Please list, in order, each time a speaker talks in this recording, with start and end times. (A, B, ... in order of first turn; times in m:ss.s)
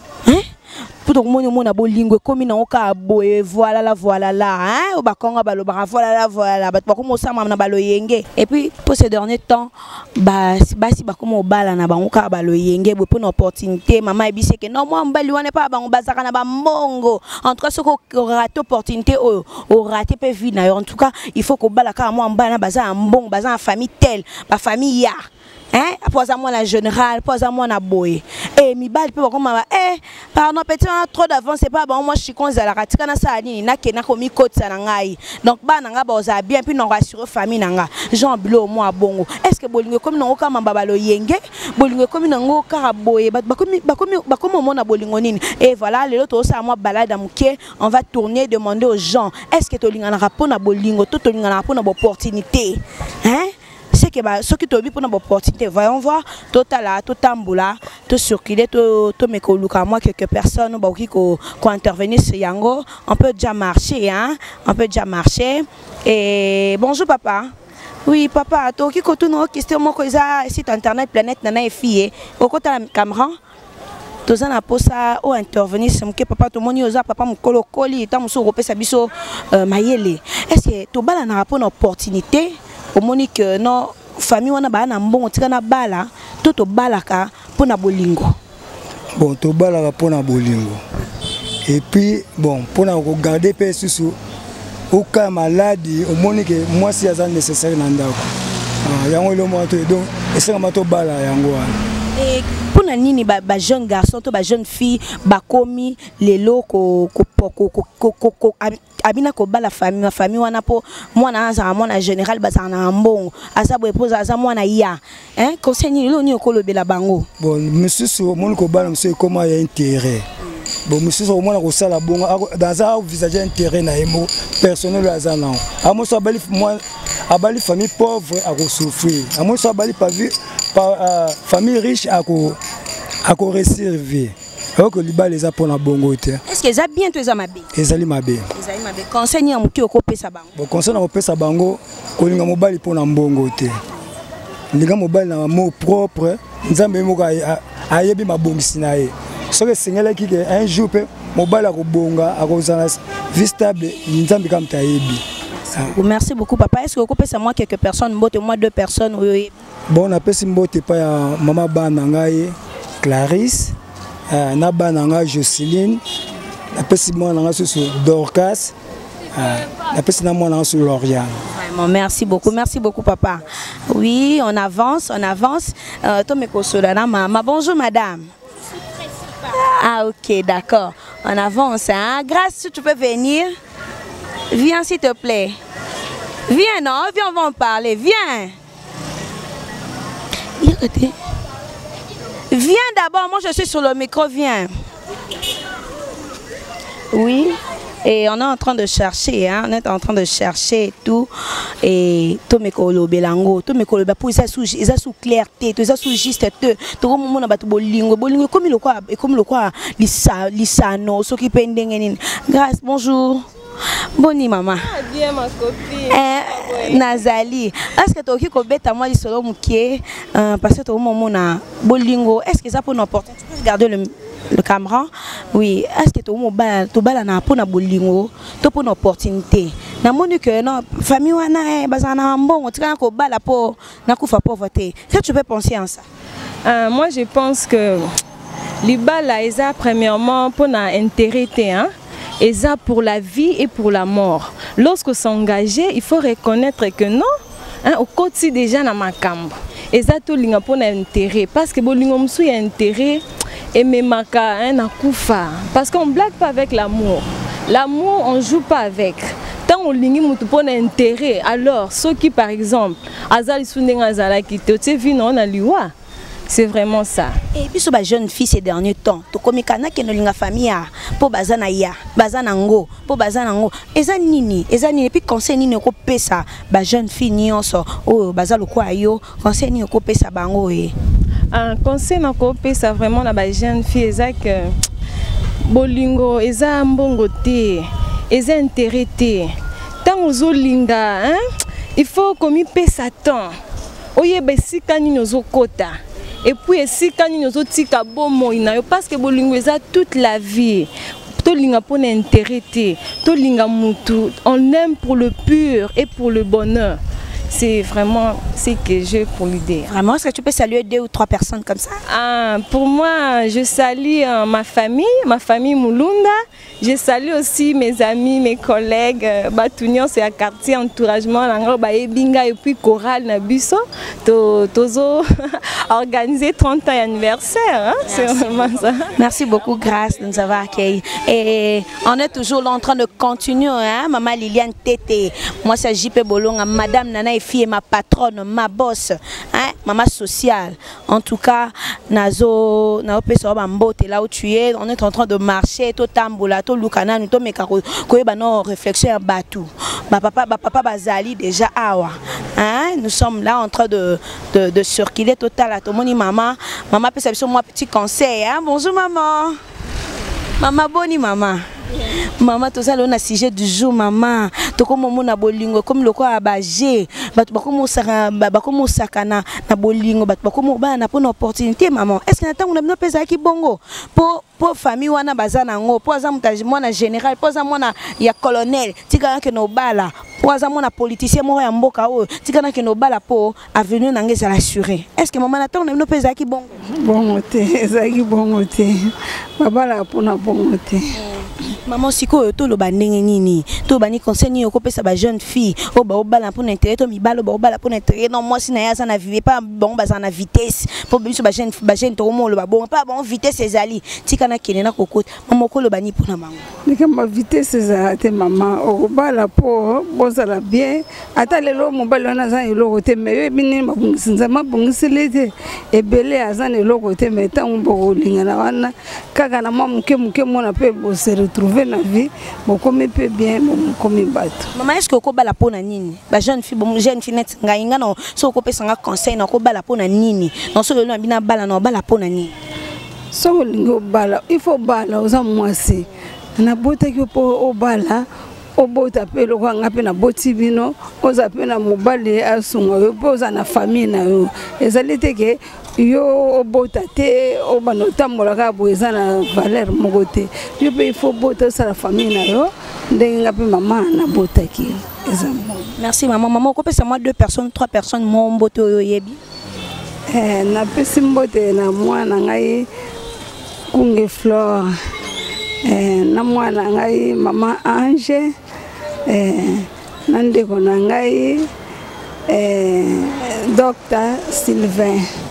0:01.0-0:25.2 A
0:25.7-1:07.5 A
1:08.0-1:13.4 A
1:14.2-1:28.4 A
1:29.1-1:30.8 B
1:31.6-1:34.2 B
1:34.9-1:38.3 B
1:38.8-1:41.8 B
1:42.2-1:57.3 A
1:57.4-2:00.2 B
2:00.8-2:12.6 B
2:13.2-2:16.4 B
2:16.4-2:17.7 A
2:17.7-2:18.5 B
2:18.5-2:20.5 A
2:20.5-2:23.8 B
2:24.7-2:36.0 B
2:35.8-2:39.5 A
2:39.9-2:43.7 B
2:44.3-2:46.0 B
2:46.7-2:48.7 B
2:49.3-2:51.4 B
2:51.5-2:58.3 A
2:59.4-3:03.5 A
3:04.5-3:05.6 A
3:06.5-3:08.5 A
3:10.6-3:11.1 A
3:12.5-3:14.7 A
3:17.1-3:21.3 A
3:21.8-3:33.4 A
3:34.1-3:34.9 A
3:34.8-3:37.0 C
3:36.1-3:56.0 A
3:56.6-3:58.0 C
3:58.8-4:07.3 C
4:07.8-4:25.9 C
4:26.5-4:27.3 C
4:27.5-4:40.9 A
4:41.5-4:44.7 C
4:45.7-4:49.5 C
4:50.0-4:51.4 C
4:52.0-4:53.5 C
4:54.2-5:07.0 C
5:07.5-5:09.9 C
5:09.9-5:12.0 A
5:12.1-5:29.1 C
5:28.0-5:28.6 A
5:29.2-5:59.6 A
6:00.6-6:26.8 A
6:26.9-6:31.0 D
6:31.2-6:46.6 A
6:46.8-7:04.7 D
7:04.7-7:12.5 A
7:13.3-7:35.9 D
7:36.0-7:39.4 A
7:40.3-7:42.9 D
7:43.9-7:44.9 D
7:45.8-7:48.5 D
7:49.2-7:51.7 D
7:52.5-7:55.3 D